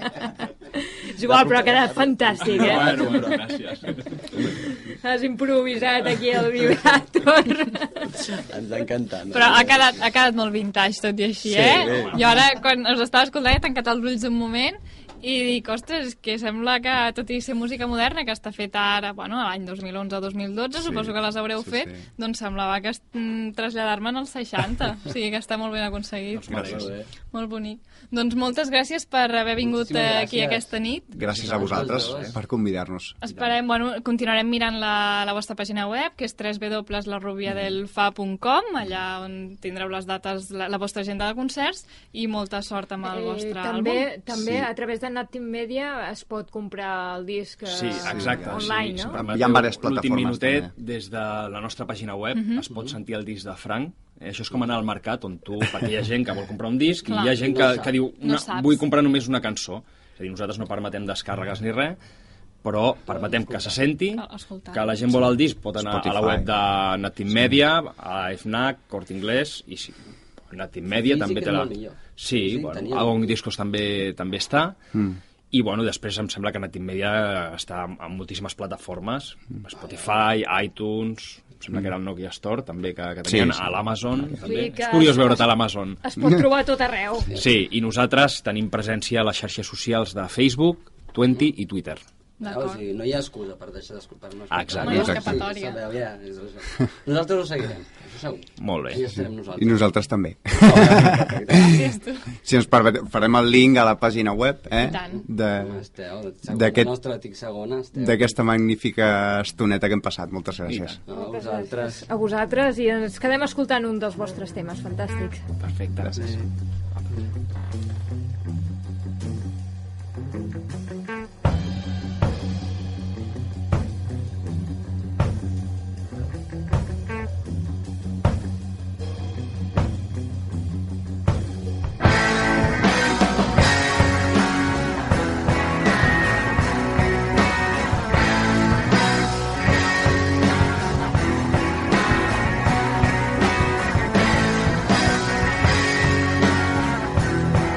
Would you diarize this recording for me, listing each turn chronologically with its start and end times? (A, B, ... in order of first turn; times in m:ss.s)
0:01.1-0:03.4 A
0:01.2-0:03.4 B
0:02.4-0:04.3 C
0:04.7-0:08.3 A
0:08.2-0:09.9 B
0:09.3-0:26.8 D
0:11.4-0:12.2 B
0:11.6-0:12.2 C
0:20.8-0:22.0 E
0:26.3-0:26.9 C
0:26.5-0:26.8 E
0:26.6-0:27.1 B
0:27.3-0:31.2 D
0:29.6-0:30.7 B
0:31.1-0:33.2 E
0:31.3-0:32.4 C
0:31.3-0:32.3 B
0:33.2-0:44.1 D
0:43.0-0:49.2 A
0:44.3-0:44.7 E
0:47.7-1:02.0 C
0:48.0-0:50.7 E
0:52.3-0:52.7 D
0:57.0-0:57.4 D
0:57.4-0:57.9 B
0:58.2-0:58.8 D
1:02.6-1:10.0 C
1:03.1-1:03.8 B
1:04.1-1:05.1 D
1:05.8-1:06.5 E
1:10.5-1:14.8 C
1:10.9-1:13.3 B
1:15.5-1:26.0 C
1:23.2-1:23.6 E
1:24.4-1:25.5 A
1:26.0-1:27.4 A
1:27.3-1:32.0 C
1:32.4-1:32.8 D
1:32.4-1:39.8 B
1:34.5-1:35.2 C
1:34.8-1:35.8 D
1:34.8-1:35.3 E
1:38.6-1:39.0 C
1:39.6-1:41.4 E
1:40.6-1:41.8 B
1:41.6-1:42.3 D
1:42.3-1:45.8 E
1:44.8-1:45.2 D
1:45.1-1:48.4 B
1:46.5-1:46.9 E
1:48.0-1:51.0 E
1:50.7-1:51.0 C
1:51.1-1:52.0 B
1:51.1-1:55.4 A
1:55.6-1:56.3 C
1:56.2-1:56.4 B